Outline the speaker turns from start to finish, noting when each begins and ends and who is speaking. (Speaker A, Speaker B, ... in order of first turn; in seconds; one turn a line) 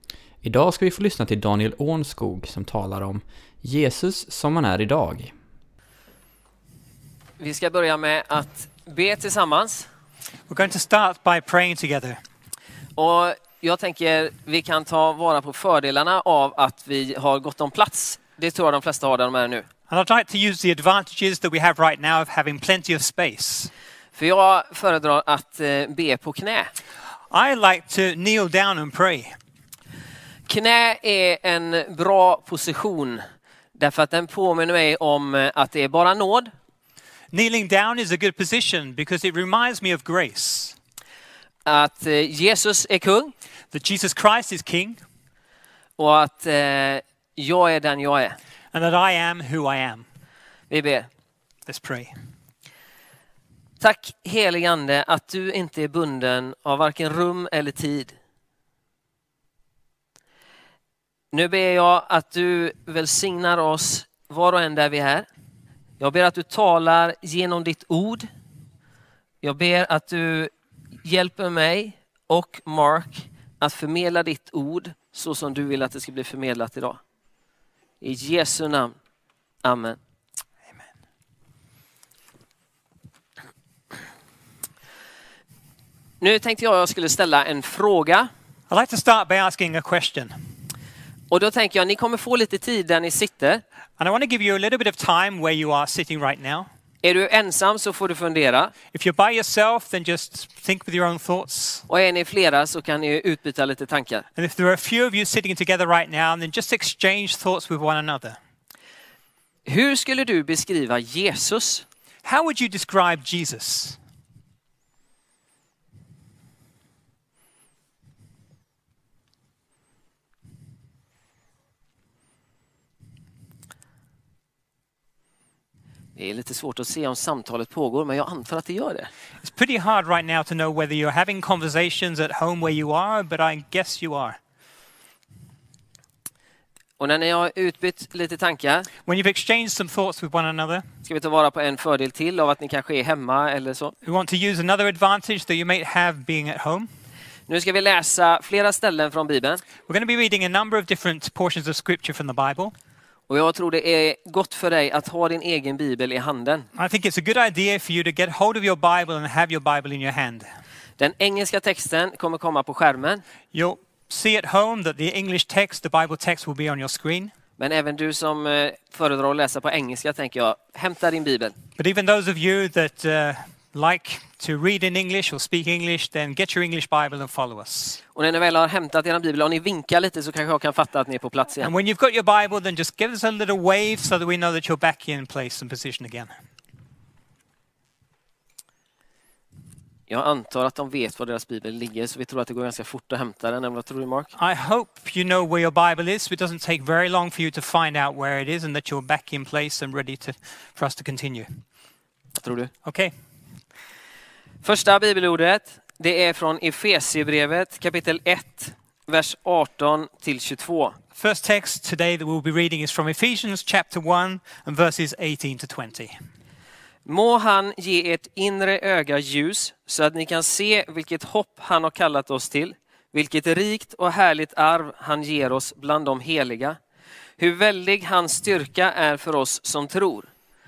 Speaker A: 0.4-5.3
Speaker B: 7.4-9.9
Speaker C: 10.5-12.2
Speaker B: 13.0-19.6
Speaker C: 19.9-23.7
Speaker B: 24.1-26.7
Speaker C: 27.3-29.3
Speaker B: 30.5-33.2
Speaker B: 33.8-36.5
Speaker C: 37.3-40.8
Speaker B: 41.6-43.3
Speaker C: 43.7-45.0
Speaker B: 46.0-48.4
Speaker C: 48.7-50.0
Speaker B: 50.7-51.1
Speaker C: 51.6-52.1
Speaker B: 53.8-58.1
Speaker B: 61.3-65.3
Speaker B: 66.0-68.3
Speaker B: 69.4-70.5
Speaker B: 71.0-77.0
Speaker B: 78.0-78.9
Speaker B: 79.6-80.0
Speaker B: 86.2-88.3
Speaker C: 88.7-90.3
Speaker B: 91.3-93.6
Speaker C: 94.0-96.7
Speaker B: 97.0-98.7
Speaker C: 98.9-101.8
Speaker B: 101.9-104.2
Speaker C: 104.3-108.4
Speaker B: 109.7-111.8
Speaker C: 112.2-114.0
Speaker B: 126.2-129.1
Speaker C: 129.4-134.4
Speaker B: 137.0-138.9
Speaker C: 139.0-140.8
Speaker B: 141.0-143.9
Speaker C: 144.0-146.9
Speaker B: 147.5-149.6
Speaker C: 149.9-152.7
Speaker B: 153.3-156.7
Speaker C: 156.7-160.4
Speaker B: 161.0-163.2
Speaker C: 163.5-167.3
Speaker B: 167.6-171.5
Speaker C: 171.8-178.0
Speaker B: 178.1-181.7
Speaker C: 181.6-186.3
Speaker B: 190.1-194.3
Speaker C: 194.3-201.5
Speaker B: 202.4-202.7
Speaker C: 202.8-203.1
Speaker B: 204.6-211.0
Speaker C: 211.2-216.1
Speaker B: 217.1-226.8
Speaker B: 227.4-230.3